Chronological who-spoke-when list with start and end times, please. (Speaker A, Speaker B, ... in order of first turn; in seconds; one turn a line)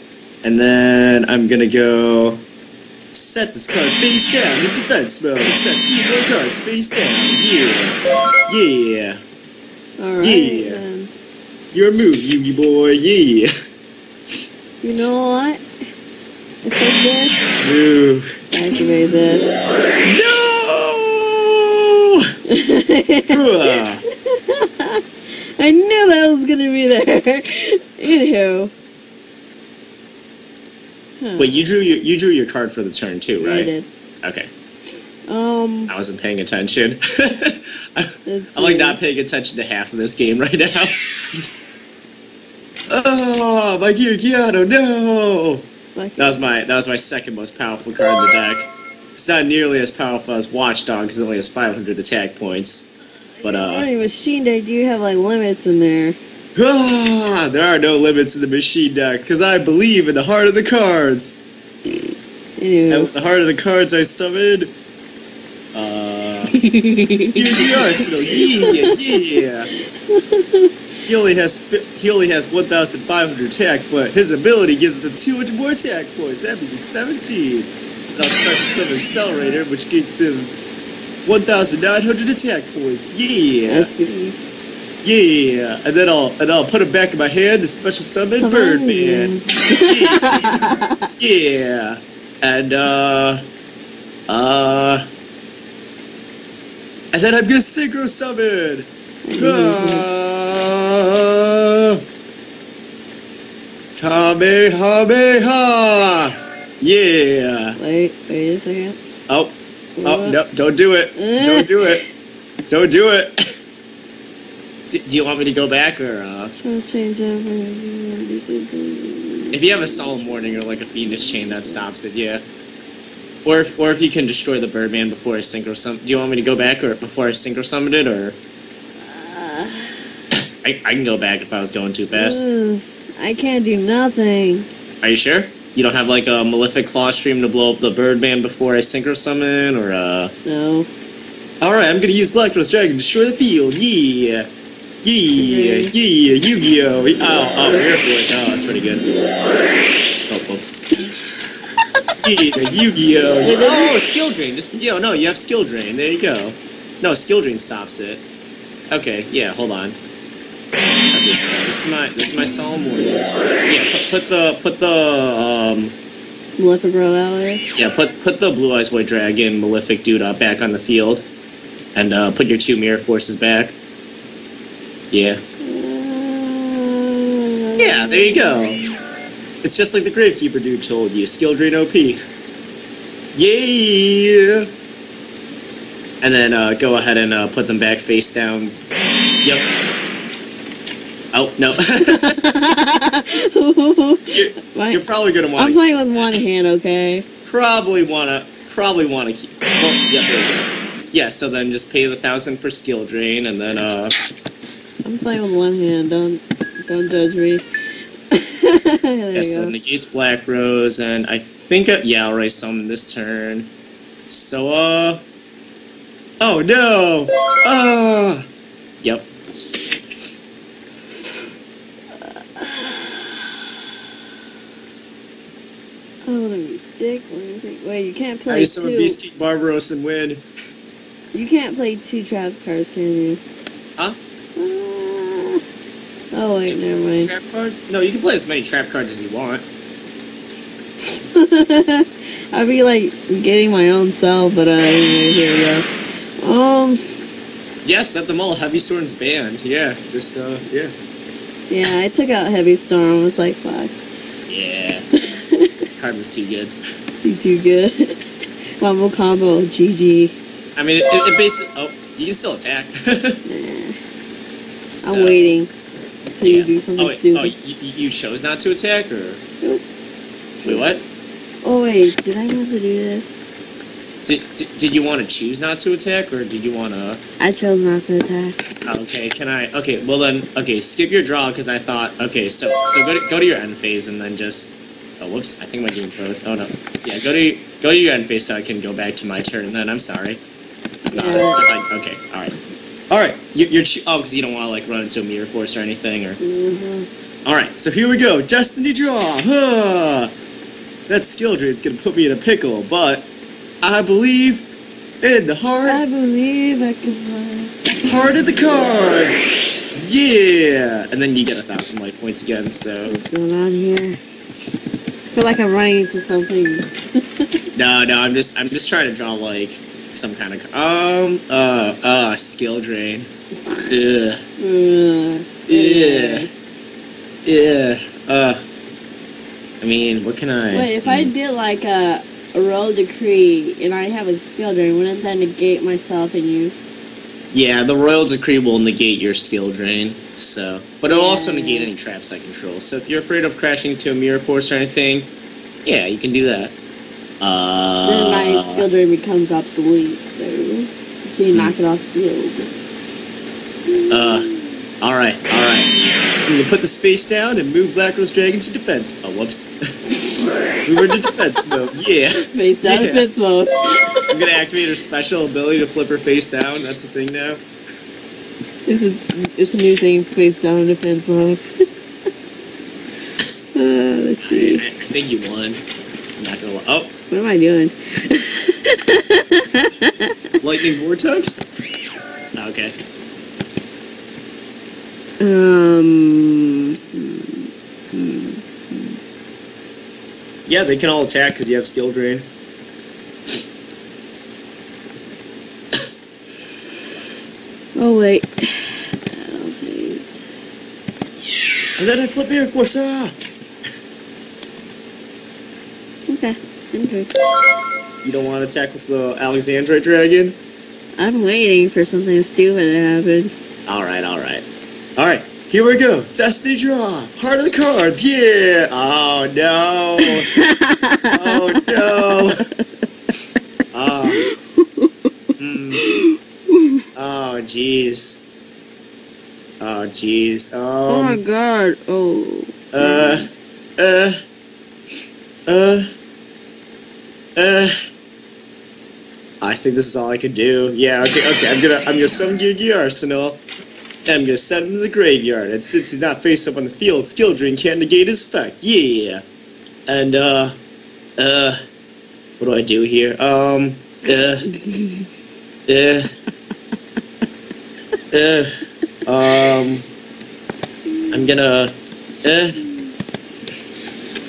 Speaker A: 0.4-2.4
Speaker A: 3.1-9.2
Speaker B: 10.0-11.1
Speaker A: 10.2-10.8
Speaker A: 11.7-13.5
Speaker B: 14.8-15.6
Speaker B: 16.6-17.4
Speaker A: 17.6-18.3
Speaker B: 18.5-19.6
Speaker A: 20.1-22.2
Speaker B: 22.5-25.0
Speaker A: 23.3-24.0
Speaker B: 25.6-28.7
Speaker B: 31.2-31.6
Speaker A: 31.4-33.7
Speaker B: 33.4-33.9
Speaker A: 34.2-34.5
Speaker B: 35.3-35.9
Speaker A: 35.9-41.6
Speaker B: 38.2-39.0
Speaker A: 42.9-45.7
Speaker B: 46.0-46.4
Speaker A: 46.2-52.9
Speaker B: 53.4-56.2
Speaker A: 53.4-53.9
Speaker A: 56.6-61.4
Speaker B: 61.9-63.1
Speaker A: 62.9-64.7
Speaker A: 65.7-66.6
Speaker B: 66.5-69.2
Speaker A: 67.3-69.7
Speaker B: 69.8-70.7
Speaker A: 71.1-80.5
Speaker A: 81.2-83.9
Speaker B: 83.7-84.4
Speaker A: 85.0-89.3
Speaker B: 88.4-91.1
Speaker A: 89.8-90.6
Speaker A: 91.2-93.4
Speaker A: 94.3-95.1
Speaker A: 97.1-102.0
Speaker B: 99.2-100.1
Speaker A: 104.0-107.8
Speaker B: 107.8-109.0
Speaker A: 109.3-112.0
Speaker B: 110.0-110.4
Speaker B: 111.2-111.8
Speaker A: 112.7-113.3
Speaker A: 114.9-116.5
Speaker B: 116.6-120.1
Speaker A: 119.5-122.4
Speaker A: 123.5-128.4
Speaker B: 129.0-130.2
Speaker A: 130.6-132.5
Speaker B: 132.1-134.7
Speaker A: 135.0-140.3
Speaker B: 140.4-140.9
Speaker A: 141.6-144.5
Speaker A: 145.0-149.1
Speaker B: 145.4-145.9
Speaker A: 150.3-150.8
Speaker B: 151.1-151.8
Speaker A: 152.2-158.2
Speaker B: 153.4-154.0
Speaker A: 158.9-160.0
Speaker A: 161.1-165.9
Speaker B: 166.6-167.6
Speaker A: 167.8-171.3
Speaker A: 171.9-173.8
Speaker A: 175.1-175.4
Speaker B: 175.6-178.8
Speaker A: 177.8-178.8
Speaker A: 179.6-182.2
Speaker A: 183.3-184.7
Speaker A: 186.2-188.8
Speaker A: 189.4-189.7
Speaker A: 191.3-192.4
Speaker B: 192.0-195.0
Speaker A: 194.3-196.4
Speaker B: 195.6-197.2
Speaker A: 197.4-204.1
Speaker B: 205.1-207.7
Speaker B: 208.3-209.7
Speaker A: 209.3-213.7
Speaker A: 214.3-215.2
Speaker A: 216.4-218.5
Speaker A: 219.0-219.3
Speaker B: 222.1-224.0
Speaker B: 226.2-229.2
Speaker A: 228.5-230.4
Speaker B: 231.3-233.4
Speaker B: 234.6-235.6
Speaker B: 236.3-237.3
Speaker A: 236.7-239.7
Speaker B: 241.1-245.8
Speaker B: 246.4-247.2
Speaker A: 247.8-250.9
Speaker B: 251.7-253.9
Speaker A: 254.5-255.1
Speaker B: 255.3-255.7
Speaker A: 256.0-256.8
Speaker B: 257.2-258.1
Speaker B: 258.8-260.4
Speaker A: 260.8-263.4
Speaker B: 263.5-264.0
Speaker A: 264.9-265.6
Speaker B: 265.0-265.7
Speaker B: 266.4-267.5
Speaker A: 266.4-269.4
Speaker B: 270.6-270.9
Speaker A: 270.6-271.0
Speaker B: 271.6-273.3
Speaker A: 274.2-277.2
Speaker B: 277.4-278.6
Speaker A: 278.9-290.4
Speaker B: 291.1-291.6
Speaker A: 291.1-292.6
Speaker A: 293.1-296.4
Speaker B: 296.4-297.1
Speaker A: 297.4-300.3
Speaker A: 301.1-303.3
Speaker A: 303.8-304.7
Speaker A: 305.2-306.0
Speaker B: 305.9-307.8
Speaker A: 308.1-313.1
Speaker B: 313.1-314.2
Speaker B: 315.3-316.9
Speaker A: 317.8-323.3
Speaker A: 323.9-324.4
Speaker B: 324.6-326.5
Speaker A: 325.7-326.5
Speaker A: 327.4-328.6
Speaker A: 329.8-331.3
Speaker B: 330.7-336.7
Speaker A: 337.5-345.3
Speaker B: 341.1-341.9
Speaker A: 345.9-346.8
Speaker A: 347.4-348.9
Speaker B: 348.0-352.7
Speaker B: 353.9-354.8
Speaker A: 354.1-354.5
Speaker A: 355.0-355.9
Speaker A: 356.5-359.8
Speaker A: 360.9-363.3
Speaker B: 362.5-364.2
Speaker A: 364.3-367.6
Speaker B: 368.9-371.6
Speaker B: 373.7-374.8
Speaker A: 374.4-375.8
Speaker A: 376.4-377.1
Speaker B: 377.3-380.4
Speaker A: 380.6-381.7
Speaker A: 382.6-382.9
Speaker B: 385.4-389.2
Speaker A: 390.7-392.5
Speaker B: 397.9-400.4
Speaker A: 402.0-403.4
Speaker B: 406.3-407.3
Speaker A: 408.2-410.6
Speaker B: 411.2-413.5
Speaker A: 413.9-414.6
Speaker A: 415.2-420.5
Speaker B: 420.2-422.8
Speaker A: 421.3-422.6
Speaker A: 423.9-424.5
Speaker B: 424.3-425.3
Speaker A: 425.6-426.1
Speaker B: 426.0-427.0
Speaker A: 427.1-428.5
Speaker A: 429.8-431.4
Speaker B: 431.1-433.5
Speaker A: 432.9-434.4
Speaker A: 435.7-436.1
Speaker A: 437.6-437.9
Speaker A: 439.6-443.6
Speaker A: 444.3-449.4
Speaker A: 450.1-450.8
Speaker A: 451.4-451.8
Speaker A: 452.6-454.7
Speaker B: 454.3-455.3
Speaker A: 455.9-456.3
Speaker A: 458.3-458.7
Speaker A: 459.2-460.1
Speaker B: 461.1-461.5
Speaker A: 461.3-462.8
Speaker B: 462.8-463.1